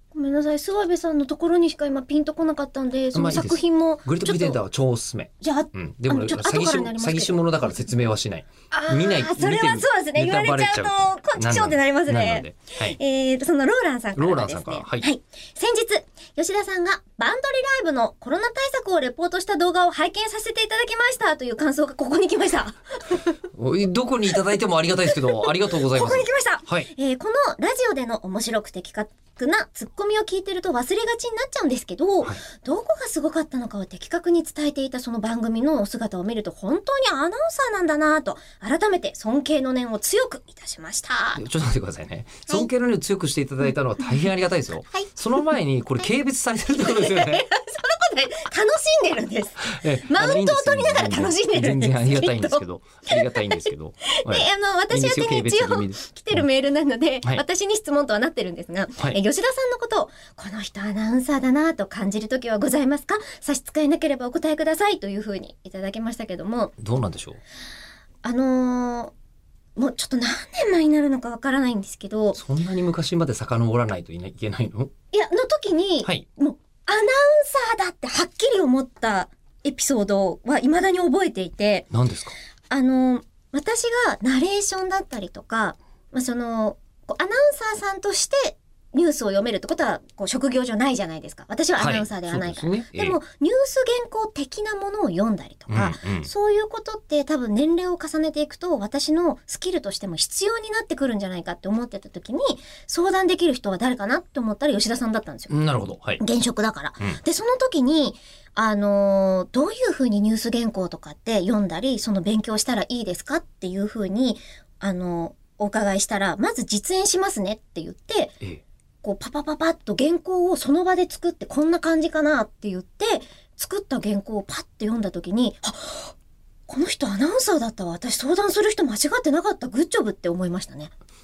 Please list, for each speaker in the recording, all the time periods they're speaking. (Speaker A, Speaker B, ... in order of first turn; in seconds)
Speaker A: 0.1-4.6, 5.4-7.8, 8.7-23.3, 25.1-41.4, 46.8-66.7, 68.2-69.1, 69.8-72.4, 75.1-81.9, 82.7-105.5, 106.2-118.4, 119.0-126.1, 126.7-130.9
Speaker B: 3.1-13.0, 14.1-15.1, 23.5-26.9, 41.4-47.4, 49.6-56.5, 66.8-67.4, 72.3-74.9, 81.9-82.3, 91.8-93.2, 95.7-96.3, 105.5-106.2